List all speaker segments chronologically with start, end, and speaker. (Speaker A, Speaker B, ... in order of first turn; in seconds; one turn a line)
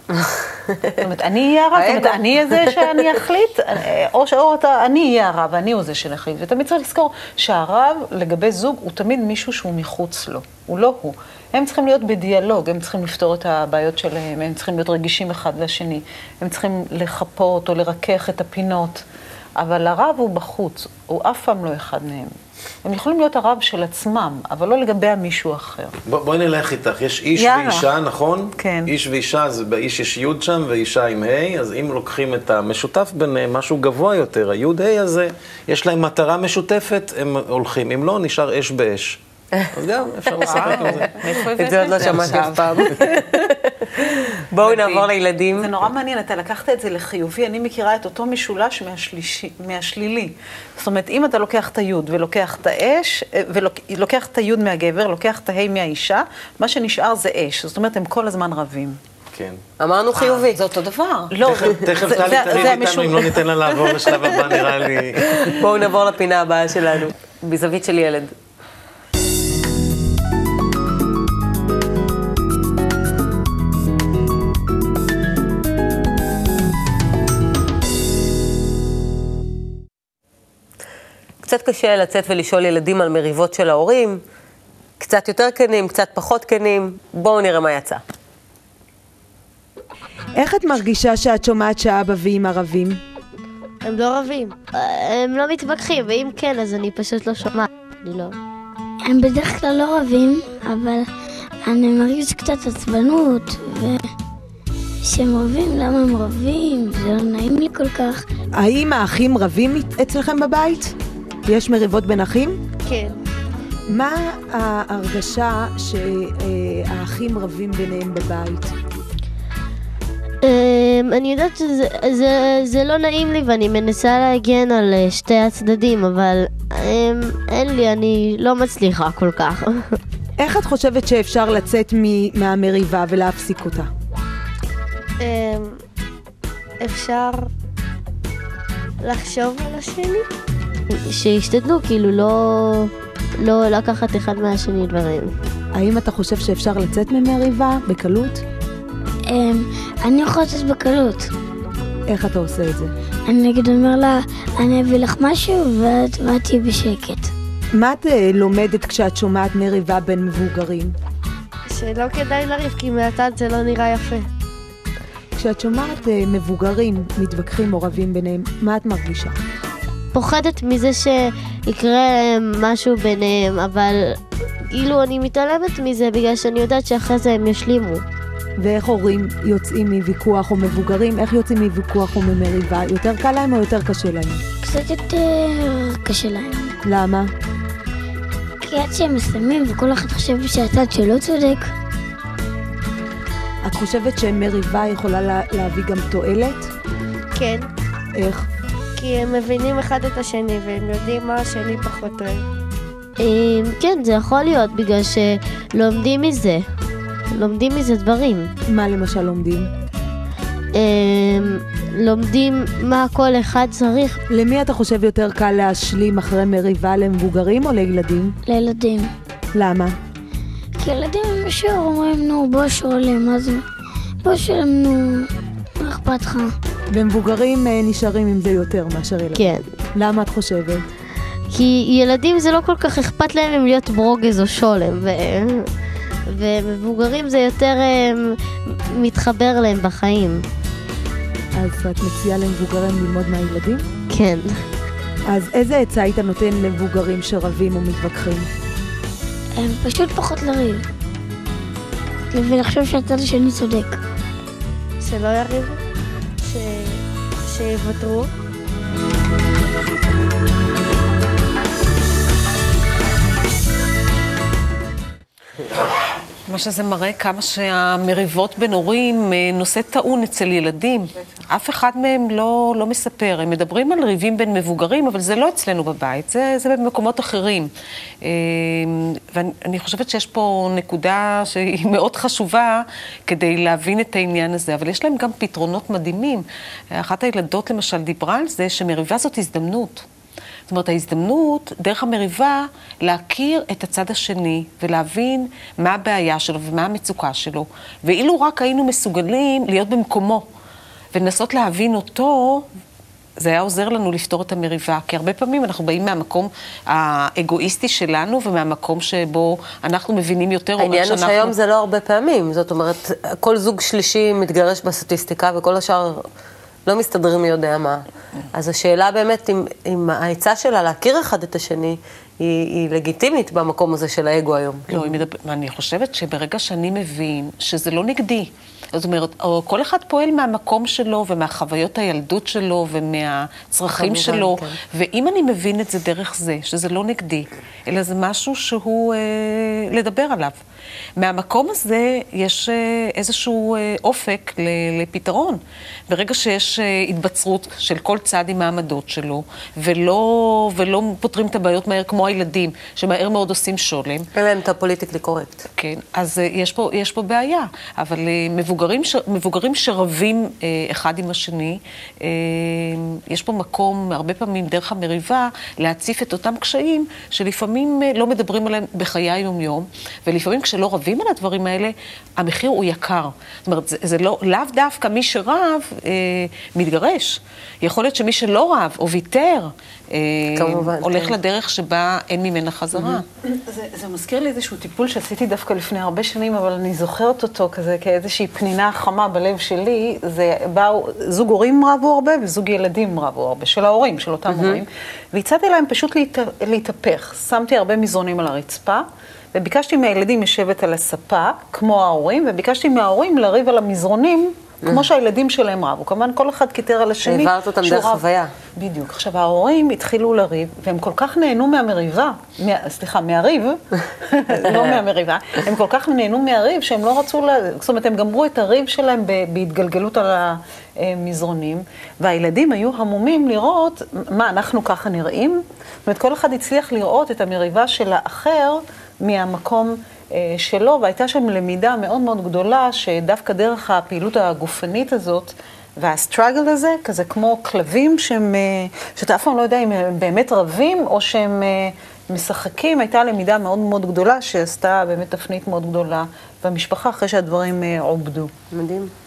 Speaker A: 0.1-1.1
Speaker B: 1.0-19.1
Speaker A: 1.7-3.2
Speaker B: 19.6-26.0
Speaker C: 26.1-39.2
Speaker B: 27.4-27.9
Speaker B: 28.6-28.9
Speaker C: 39.7-41.2
Speaker D: 40.3-43.2
Speaker A: 41.5-45.7
Speaker B: 44.6-45.0
Speaker D: 44.7-45.0
Speaker B: 45.5-59.0
Speaker C: 59.3-59.6
Speaker A: 59.8-60.6
Speaker D: 60.1-61.3
Speaker B: 61.3-64.6
Speaker C: 61.4-65.7
Speaker A: 65.5-68.3
Speaker A: 81.4-84.2
Speaker A: 85.0-88.0
Speaker E: 90.3-93.0
Speaker F: 93.8-98.4
Speaker G: 99.0-101.1
Speaker G: 101.6-104.1
Speaker G: 105.0-108.3
Speaker E: 108.5-112.6
Speaker F: 112.8-113.2
Speaker E: 113.9-118.8
Speaker F: 120.4-130.0
Speaker E: 130.4-133.9
Speaker F: 135.2-135.8
Speaker F: 136.8-137.5
Speaker F: 139.0-140.3
Speaker F: 140.9-145.3
Speaker E: 145.7-148.4
Speaker G: 149.3-151.3
Speaker E: 152.1-152.9
Speaker G: 153.3-157.3
Speaker E: 157.7-160.9
Speaker F: 161.7-164.3
Speaker E: 165.4-169.4
Speaker F: 170.1-178.0
Speaker E: 178.6-184.4
Speaker G: 184.6-186.8
Speaker E: 186.8-187.3
Speaker G: 188.6-191.7
Speaker E: 193.6-196.7
Speaker F: 197.3-197.7
Speaker E: 198.2-198.5
Speaker F: 199.0-202.5
Speaker F: 203.2-206.7
Speaker F: 207.3-208.5
Speaker E: 208.7-209.7
Speaker F: 210.8-214.2
Speaker E: 214.3-218.4
Speaker G: 218.5-219.1
Speaker E: 219.5-220.0
Speaker G: 220.8-223.7
Speaker G: 224.2-226.6
Speaker E: 226.9-230.9
Speaker F: 229.3-229.7
Speaker F: 231.5-235.7
Speaker F: 236.3-240.4
Speaker E: 241.6-243.9
Speaker F: 244.1-244.5
Speaker E: 245.3-248.5
Speaker G: 249.6-250.9
Speaker G: 252.3-254.0
Speaker F: 255.0-255.8
Speaker F: 256.4-258.3
Speaker D: 266.5-277.7
Speaker D: 278.2-290.1
Speaker D: 290.7-300.4
Speaker D: 301.1-302.7
Speaker D: 303.4-311.6
Speaker A: 310.8-316.2
Speaker A: 316.9-318.0
Speaker A: 318.5-325.2
Speaker D: 324.9-340.6
Speaker A: 333.9-334.8
Speaker D: 341.2-354.3
Speaker A: 354.4-355.6
Speaker D: 355.8-383.2
Speaker A: 380.5-381.4
Speaker B: 383.0-408.2
Speaker A: 394.5-394.8
Speaker A: 407.2-408.5
Speaker B: 408.8-448.5
Speaker A: 414.6-415.0
Speaker A: 448.7-449.1